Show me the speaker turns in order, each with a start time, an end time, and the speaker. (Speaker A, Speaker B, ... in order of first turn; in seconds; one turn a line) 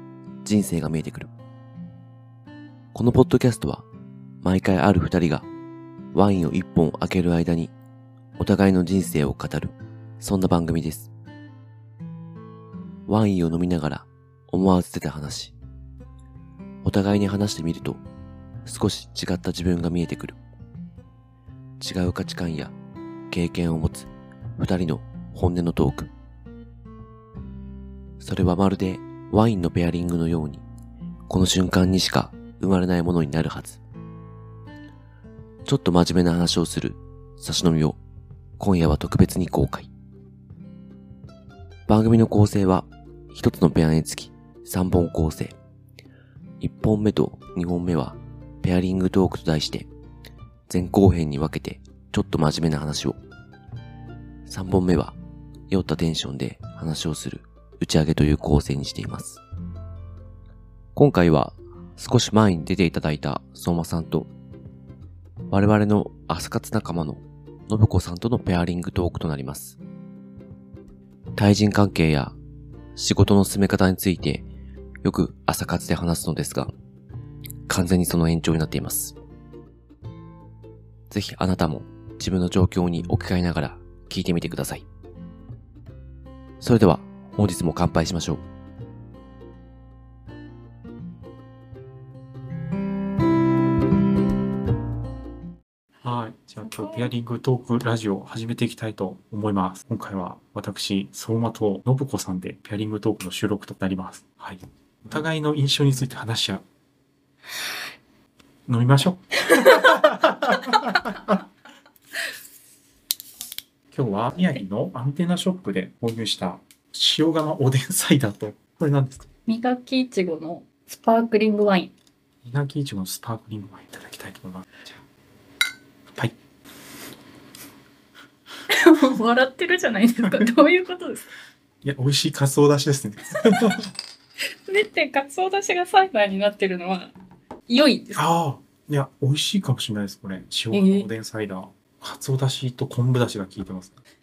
Speaker A: 0.4-1.3
Speaker A: 2.9-3.9
Speaker A: 4.4-5.5
Speaker A: 6.1-7.7
Speaker A: 8.4-11.1
Speaker A: 13.1-15.5
Speaker A: 16.8-18.0
Speaker A: 18.6-20.4
Speaker A: 21.8-22.7
Speaker A: 23.3-26.1
Speaker A: 28.2-30.6
Speaker A: 31.3-33.8
Speaker A: 35.6-38.0
Speaker A: 38.6-39.9
Speaker A: 41.9-45.5
Speaker A: 46.6-49.9
Speaker A: 50.7-53.2
Speaker A: 54.5-55.2
Speaker A: 55.7-59.4
Speaker A: 61.0-64.3
Speaker A: 65.5-69.8
Speaker A: 71.4-72.3
Speaker A: 73.0-74.5
Speaker A: 75.0-76.7
Speaker A: 77.7-79.2
Speaker A: 81.1-84.8
Speaker A: 86.6-88.4
Speaker B: 96.0-106.6
Speaker C: 96.6-97.1
Speaker B: 108.7-111.4
Speaker C: 109.5-111.1
Speaker B: 113.9-119.3
Speaker C: 119.5-121.9
Speaker B: 122.4-125.0
Speaker C: 128.7-131.2
Speaker B: 130.2-130.5
Speaker B: 131.8-133.9
Speaker C: 133.4-133.7
Speaker C: 134.4-137.1
Speaker C: 137.7-138.2
Speaker B: 138.2-144.0
Speaker C: 140.7-141.1